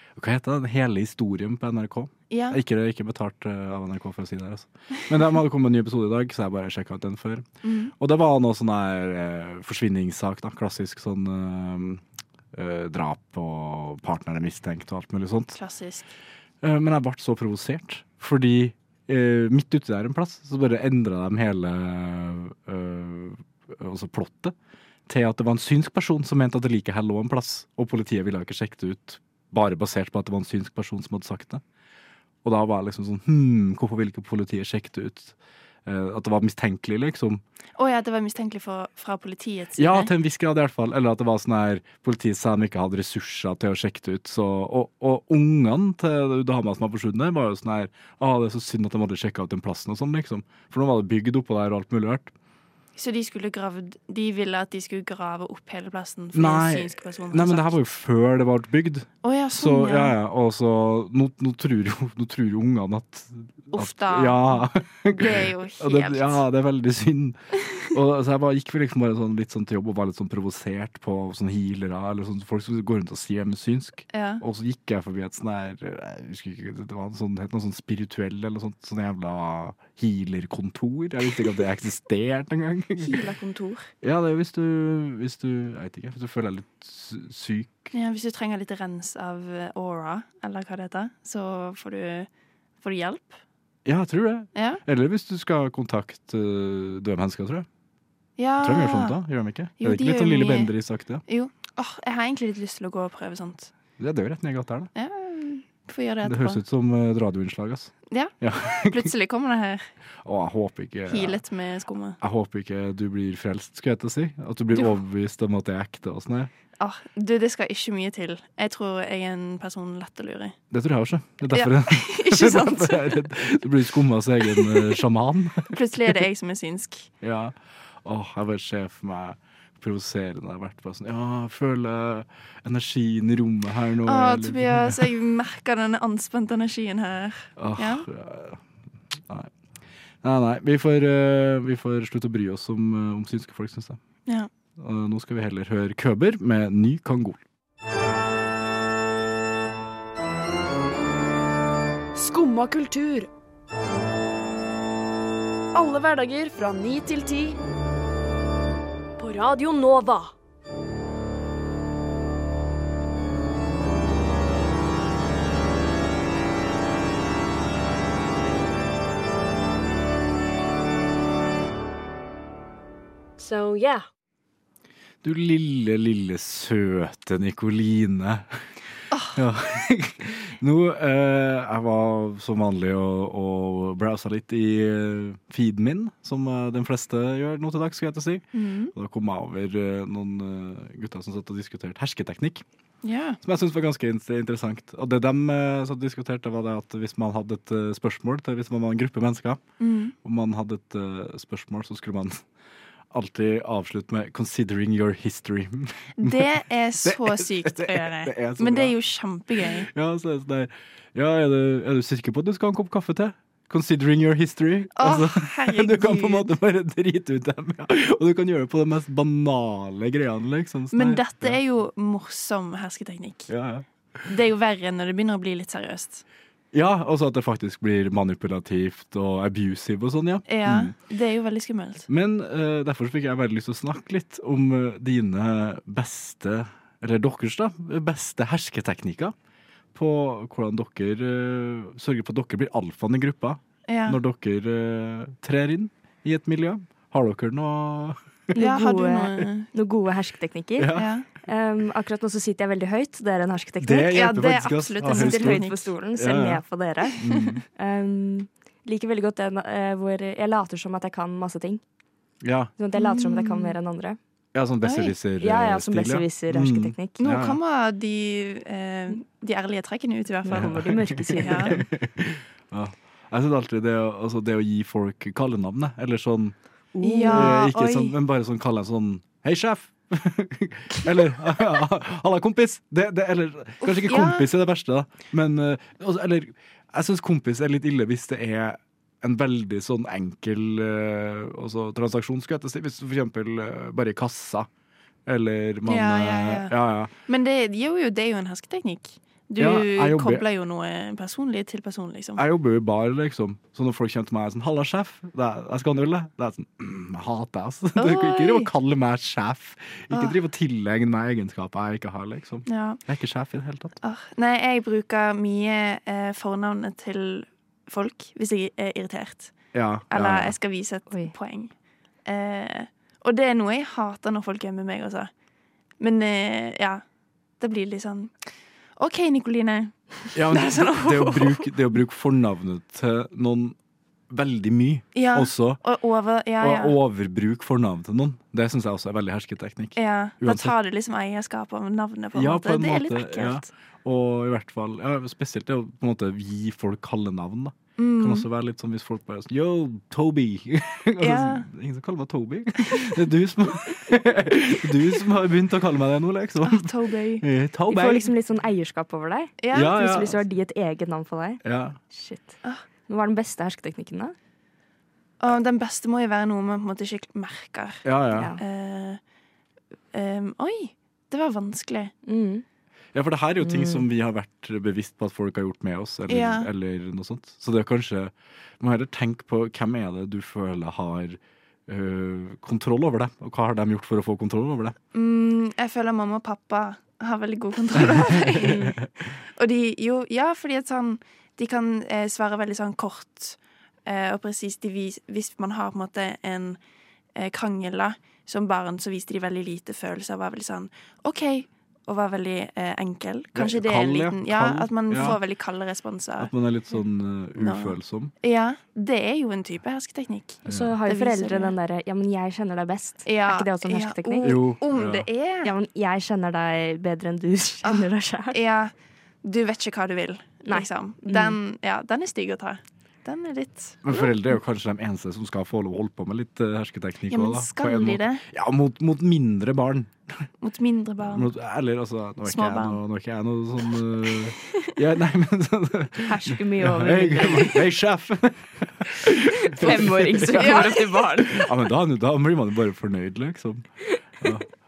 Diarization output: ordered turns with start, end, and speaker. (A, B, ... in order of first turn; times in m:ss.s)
0:00.2-0:12.0 A
0:02.3-0:02.6 B
0:07.6-0:07.9 B
0:12.5-0:15.6 A
0:15.6-0:16.1 B
0:16.6-0:24.6 A
0:25.1-0:31.6 A
0:32.4-0:37.4 A
0:37.8-0:40.1 B
0:39.8-0:52.3 A
0:53.0-0:57.8 B
0:56.3-1:23.2 A
0:59.2-1:00.2 B
1:03.7-1:06.4 B
1:14.1-1:14.4 B
1:23.0-1:23.9 B
1:24.0-1:27.9 A
1:27.9-1:32.3 B
1:32.8-1:33.4 B
1:33.8-1:37.7 A
1:34.6-1:34.8 B
1:38.4-1:39.2 B
1:38.6-1:41.2 A
1:39.8-1:40.7 B
1:41.3-1:43.7 B
1:44.0-1:44.9 A
1:45.0-1:46.6 B
1:46.2-1:49.1 A
1:48.1-1:49.9 B
1:50.2-1:51.4 A
1:51.1-1:52.2 B
1:52.2-1:56.5 A
1:56.8-2:00.6 B
2:00.7-2:06.2 A
2:01.5-2:03.2 B
2:04.5-2:05.0 B
2:05.7-2:07.1 B
2:07.2-2:15.0 A
2:14.1-2:18.1 B
2:17.6-2:18.6 A
2:19.2-2:19.5 A
2:20.2-2:24.0 A
2:24.8-2:27.4 A
2:32.2-2:33.3 C
2:35.7-2:37.6 C
2:39.2-2:40.3 C
2:53.4-2:54.0 C
2:55.2-2:58.6 A
2:59.1-2:59.4 B
2:59.4-3:12.6 A
3:08.5-3:08.9 B
3:13.0-3:13.4 B
3:13.4-3:19.6 A
3:19.8-3:20.1 B
3:20.2-3:22.4 A
3:23.1-3:26.5 A
3:26.2-3:29.9 B
3:27.0-3:29.0 A
3:29.6-3:41.6 A
3:35.0-3:36.5 B
3:40.9-3:43.5 B
3:43.5-3:43.8 A
3:44.3-3:46.2 B
3:46.7-3:50.9 A
3:50.5-3:52.1 B
3:52.1-3:59.3 A
3:59.9-4:08.6 A
4:03.9-4:04.2 B
4:08.6-4:14.2 D
4:08.6-4:09.7 B
4:10.8-4:11.1 A
4:11.0-4:11.3 B
4:13.8-4:16.6 A
4:14.1-4:15.9 B
4:15.1-4:17.2 D
4:17.2-4:17.6 A
4:17.8-4:21.8 D
4:22.4-4:22.7 A
4:22.8-4:24.2 D
4:22.9-4:23.8 B
4:24.5-4:27.6 A
4:24.8-4:25.1 B
4:25.4-4:27.2 D
4:27.2-4:30.8 B
4:30.5-4:31.8 D
4:30.5-4:36.6 A
4:31.4-4:31.8 B
4:37.0-4:37.6 D
4:37.0-4:38.1 B
4:37.2-4:54.7 A
4:43.8-4:44.5 B
4:55.3-4:57.1 A
4:55.9-4:56.8 B
4:57.3-5:02.4 B
4:59.6-5:00.4 A
5:02.4-5:13.9 A
5:08.0-5:08.7 B
5:10.1-5:10.4 B
5:12.7-5:13.0 B
5:14.0-5:19.6 B
5:19.7-5:20.6 A
5:20.1-5:21.7 B
5:22.2-5:25.3 B
5:26.0-5:27.0 B
5:27.6-5:28.4 B
5:29.0-5:31.7 B
5:30.3-5:33.8 A
5:34.3-5:35.8 A
5:35.1-5:37.0 B
5:36.6-5:40.7 A
5:40.0-5:43.7 B
5:42.3-5:58.3 A
5:48.0-5:48.5 B
5:51.2-5:51.7 B
5:56.6-5:57.5 B
5:57.9-6:04.4 D
5:59.6-6:00.0 B
5:59.7-6:00.4 A
6:01.6-6:02.0 A
6:05.4-6:08.0 B
6:08.0-6:08.5 A
6:08.3-6:08.6 D
6:08.6-6:09.2 B
6:10.1-6:12.1 B
6:12.3-6:12.6 D
6:13.1-6:25.0 A
6:13.6-6:14.0 D
6:16.3-6:16.7 B
6:25.1-6:29.0 B
6:28.0-6:28.9 A
6:29.6-6:36.8 B
6:37.4-6:46.5 B
6:43.6-6:45.4 A
6:46.4-6:48.3 A
6:47.6-6:51.8 B
6:50.7-6:50.9 A
6:50.7-6:54.6 D
6:53.2-6:55.7 B
6:54.4-6:55.3 A
6:55.6-6:58.6 D
6:57.8-6:58.9 B
6:59.4-7:04.3 B
7:00.7-7:01.6 D
7:04.0-7:10.5 A
7:07.3-7:08.4 B
7:10.6-7:11.5 B
7:11.2-7:23.9 A
7:12.4-7:13.0 B
7:16.2-7:17.8 D
7:19.7-7:21.7 D
7:20.5-7:21.0 B
7:24.4-7:24.7 A